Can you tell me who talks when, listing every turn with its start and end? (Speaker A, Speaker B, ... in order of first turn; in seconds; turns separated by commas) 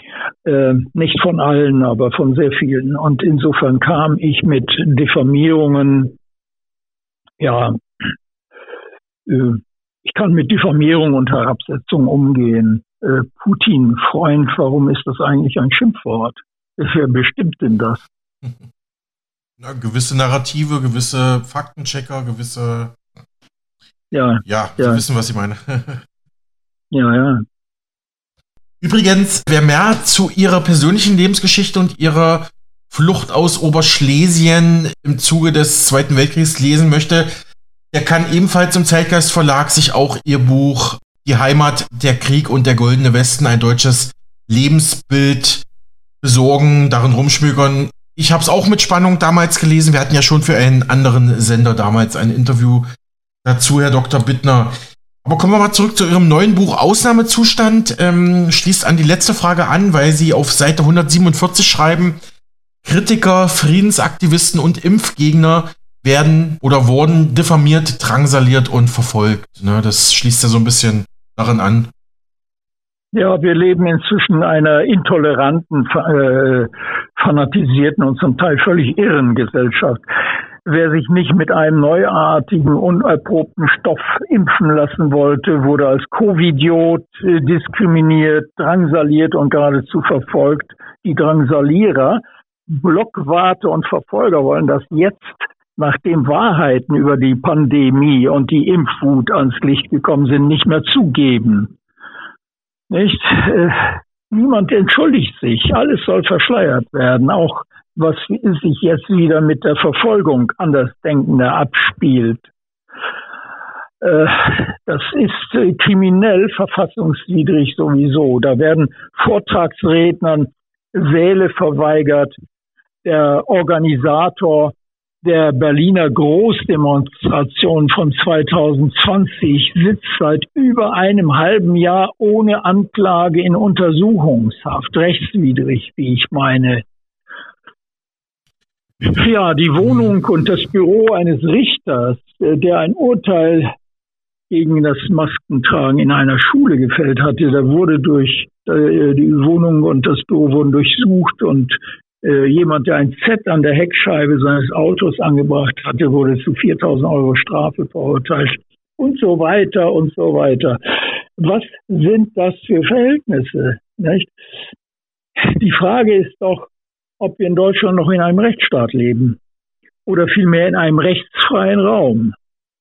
Speaker A: 0.5-6.1, Speaker A: 7.4-7.8, Speaker A: 9.3-18.0, Speaker B: 19.6-23.0, Speaker A: 24.1-25.0, Speaker B: 24.4-26.0, Speaker A: 26.9-27.4, Speaker B: 28.8-37.3, Speaker B: 37.9-45.6, Speaker B: 46.2-52.9, Speaker B: 53.4-54.7, Speaker B: 55.2-62.2, Speaker B: 62.8-71.9, Speaker A: 73.1-80.0, Speaker A: 80.6-101.7, Speaker A: 102.9-112.5, Speaker A: 114.0-122.3, Speaker A: 123.0-136.8, Speaker A: 139.0-143.7, Speaker A: 144.5-160.8, Speaker A: 161.4-164.3, Speaker A: 165.4-169.4, Speaker A: 170.1-172.3